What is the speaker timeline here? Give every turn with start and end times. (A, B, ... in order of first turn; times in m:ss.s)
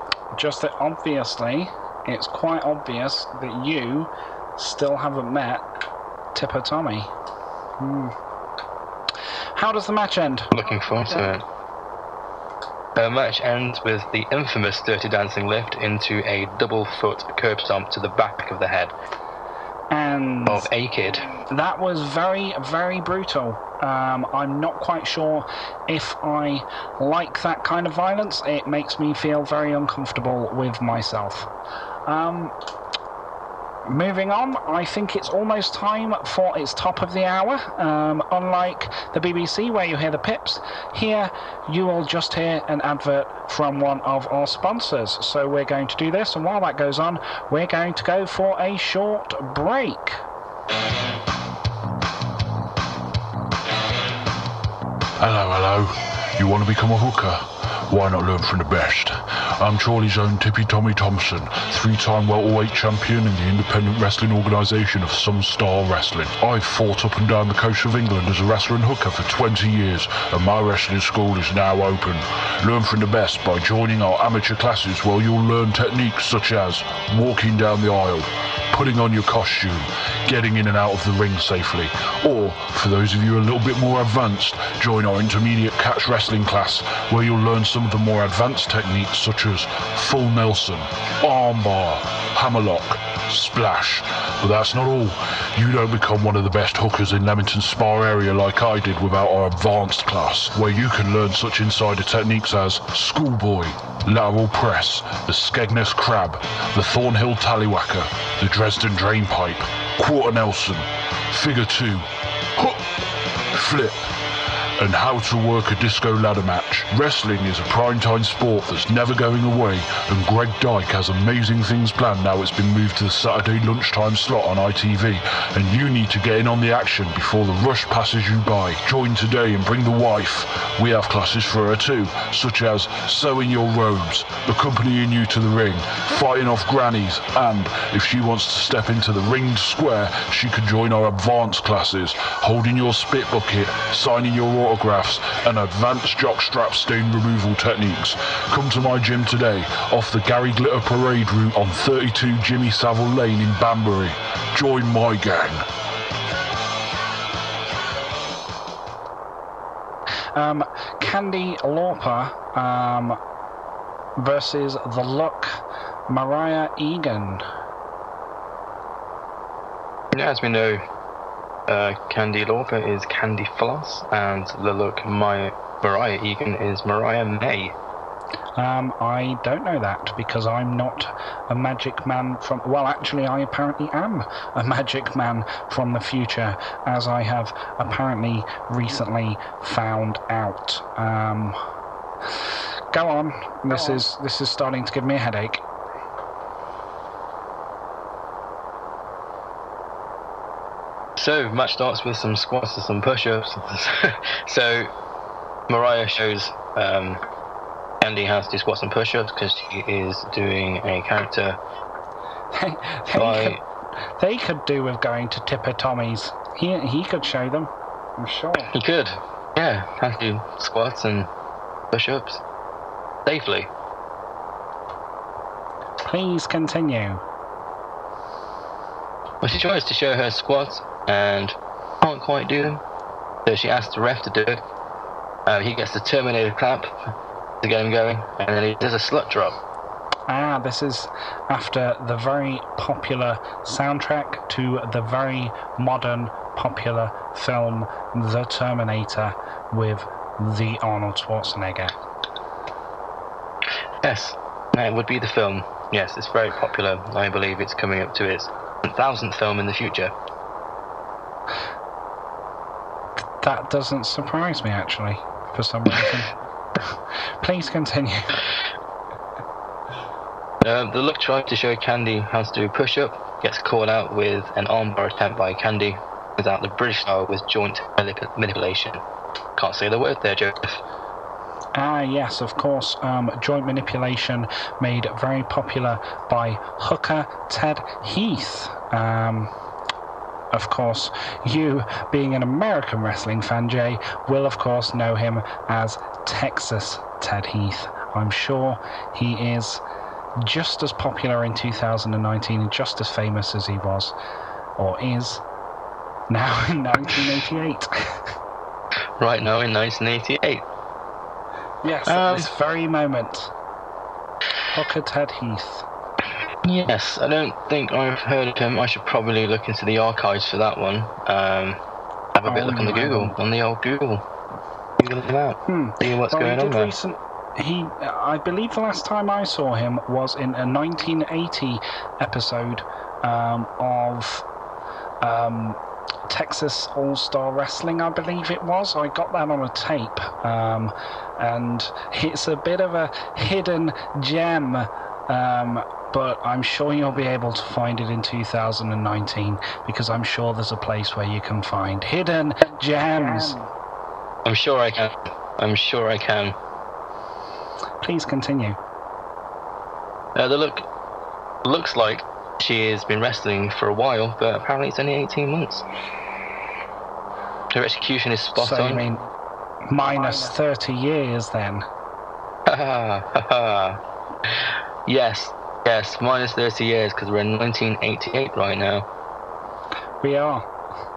0:00.3-0:05.6 A
0:06.3-0:07.1 A
0:07.8-0:08.1 A
0:09.6-0:10.5 A
0:10.5-0:11.4 B
0:13.0-0:18.9 B
0:19.9-0:20.7 A
0:20.4-0:21.3 B
0:21.5-0:31.5 A
0:32.1-0:32.5 A
0:33.8-0:50.2 A
0:55.2-1:52.0 C
1:52.6-1:52.8 C
1:53.5-1:54.1 C
1:54.8-2:35.6 C
2:40.3-2:43.2 A
2:44.2-2:47.4 A
2:50.1-2:50.8 B
2:51.7-2:57.8 B
2:58.6-3:11.6 A
3:12.9-3:15.6 A
3:21.2-3:24.9 B
3:25.7-3:27.2 B
3:28.0-3:31.6 B
3:32.5-3:33.6 A
3:33.2-3:33.6 B
3:34.2-3:38.7 A
3:38.7-3:41.3 B
3:41.9-3:42.4 B
3:43.2-3:43.7 B
3:46.0-3:47.2 A
3:49.4-3:52.8 B
3:53.4-3:54.6 B
3:55.4-3:59.6 B
4:00.3-4:11.9 A
4:14.0-4:20.1 B
4:23.4-4:26.3 A
4:27.4-4:28.4 A
4:30.6-4:39.0 B
4:39.6-4:40.8 B
4:41.7-4:49.5 A
4:50.5-4:59.8 A
5:00.4-5:04.1 A
5:04.8-5:05.4 A
5:06.3-5:08.1 A
5:09.2-5:10.6 B
5:11.8-5:13.5 A
5:12.0-5:12.5 B
5:14.7-5:15.8 A
5:16.6-5:21.8 B
5:22.4-5:24.2 B
5:22.4-5:23.3 A
5:25.0-5:26.9 B
5:25.7-5:34.4 A
5:35.2-5:53.6 A
5:54.4-5:56.6 B
5:58.0-5:58.8 A
6:00.3-6:00.8 B
6:01.6-6:05.8 B
6:07.7-6:09.1 B
6:08.5-6:09.2 A
6:09.9-6:11.8 A
6:12.6-6:19.1 B
6:20.2-6:20.7 A